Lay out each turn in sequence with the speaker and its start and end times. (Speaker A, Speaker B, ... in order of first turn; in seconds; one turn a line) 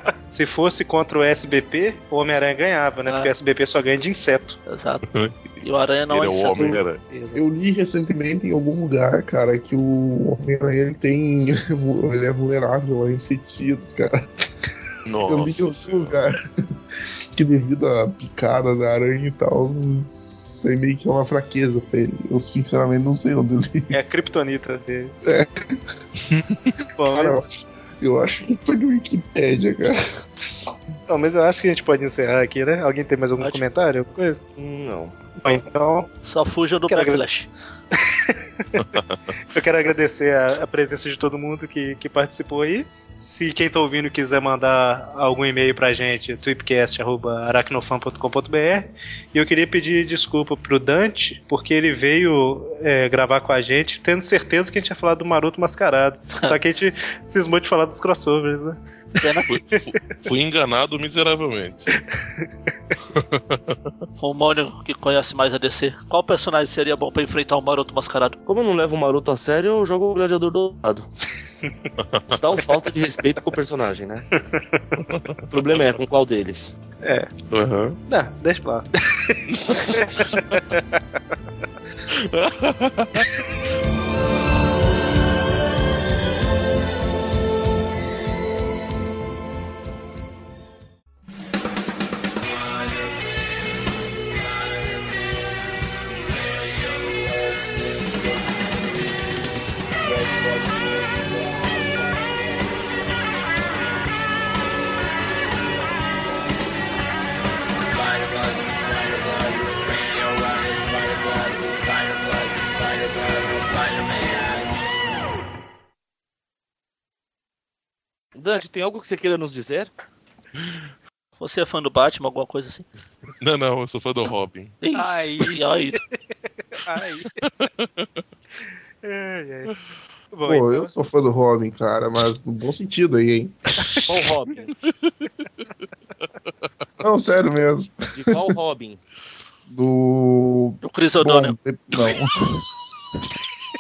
Speaker A: 0.3-4.6
Speaker B: 3.0-3.3
Speaker B: 4.7-5.0
Speaker C: 5.1-7.0
Speaker B: 5.6-6.8
Speaker A: 7.1-7.4
Speaker D: 7.3-14.3
Speaker C: 15.1-16.2
Speaker D: 15.3-16.6
Speaker D: 17.3-24.0
Speaker A: 23.9-25.1
Speaker D: 25.2-25.8
Speaker C: 26.3-26.7
Speaker A: 27.0-27.5
Speaker D: 27.0-30.2
Speaker A: 30.4-34.4
Speaker B: 33.4-33.6
Speaker E: 34.6-35.1
Speaker A: 35.4-36.1
Speaker B: 36.2-37.5
Speaker A: 36.9-37.2
Speaker A: 37.9-38.9
Speaker C: 38.9-39.2
Speaker A: 39.5-58.8
Speaker B: 59.2-59.5
Speaker C: 59.5-61.9
Speaker C: 63.1-63.8
Speaker B: 64.2-68.4
Speaker E: 68.5-71.0
Speaker C: 72.0-72.4
Speaker E: 72.3-74.2
Speaker A: 74.3-74.8
Speaker E: 75.5-76.7
Speaker A: 77.0-77.3
Speaker C: 77.5-78.0
Speaker A: 78.1-81.0
Speaker C: 82.1-83.3
Speaker E: 111.9-112.4
Speaker E: 118.3-119.9
Speaker B: 121.4-122.8
Speaker C: 123.4-124.7
Speaker B: 124.8-126.0
Speaker A: 125.0-126.0
Speaker A: 126.7-127.3
Speaker C: 127.4-128.1
Speaker A: 129.0-129.7
Speaker A: 130.3-130.9
Speaker D: 130.4-134.0
Speaker E: 134.1-134.7
Speaker D: 137.0-138.6
Speaker E: 138.1-139.0
Speaker D: 139.7-142.6
Speaker B: 140.8-141.6